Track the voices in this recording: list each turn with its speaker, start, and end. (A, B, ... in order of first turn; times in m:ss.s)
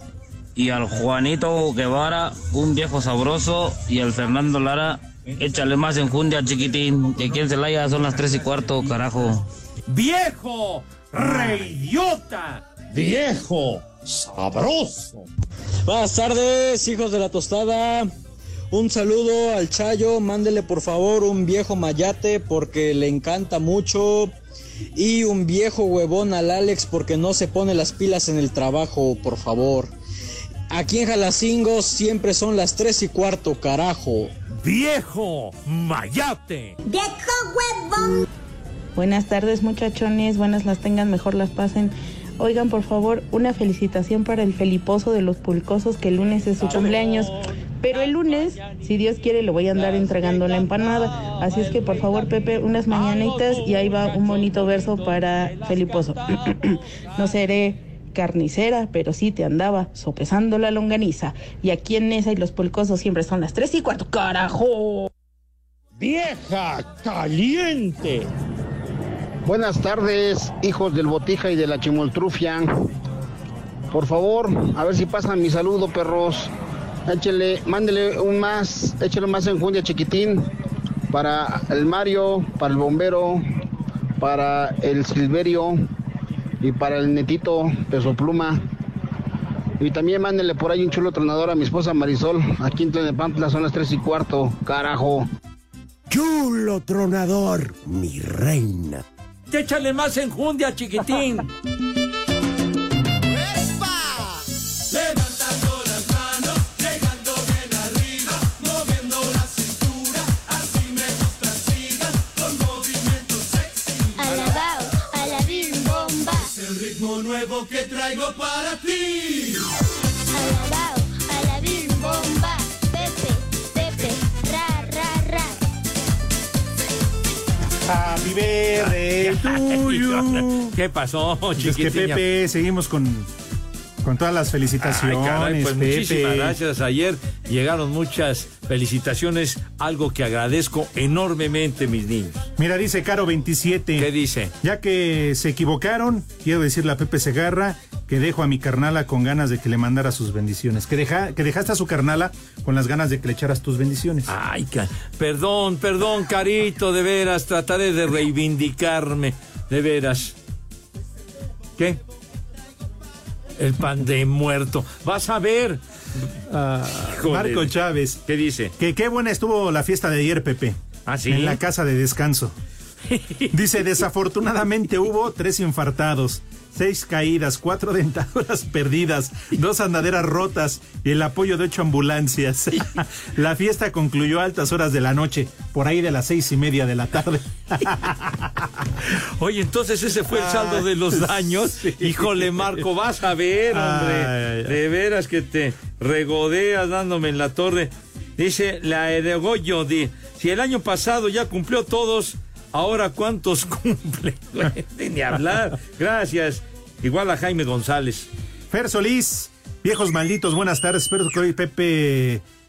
0:00.6-0:09.4 A
0:09.9-0:15.2 B
0:15.9-0:18.1 C
0:18.7-0:24.3 C
0:25.0-0:29.9 C
0:30.7-0:34.3 C
0:34.6-0:36.8 B
0:36.8-0:38.2 D
0:39.0-1:05.1 E
1:09.4-1:12.7 F
1:13.9-1:16.5 F
1:17.1-1:20.4 F
1:21.1-1:23.4 F
1:24.2-1:25.8 F
1:26.6-1:28.6 F
1:29.8-1:35.2 F
1:36.1-1:39.0 G
1:39.5-1:41.5 B
1:54.2-1:56.5 D
2:00.3-2:05.5 D
2:07.8-2:10.7 H
2:08.8-2:12.2 B
2:11.6-2:13.3 H
2:14.0-2:16.6 H
2:14.8-2:22.5 B
2:22.6-2:24.1 H
2:24.0-2:24.5 B
2:24.6-2:34.3 H
2:34.3-2:40.3 B
2:43.6-2:45.8 B
2:46.5-2:48.2 H
2:47.0-2:47.7 B
2:48.2-2:48.7 B
2:48.8-2:52.5 H
2:51.0-2:51.6 B
2:53.1-2:53.5 B
2:53.5-3:08.1 H
3:09.4-3:28.3 B
3:10.3-3:12.8 H
3:13.7-3:14.8 H
3:28.7-3:32.4 H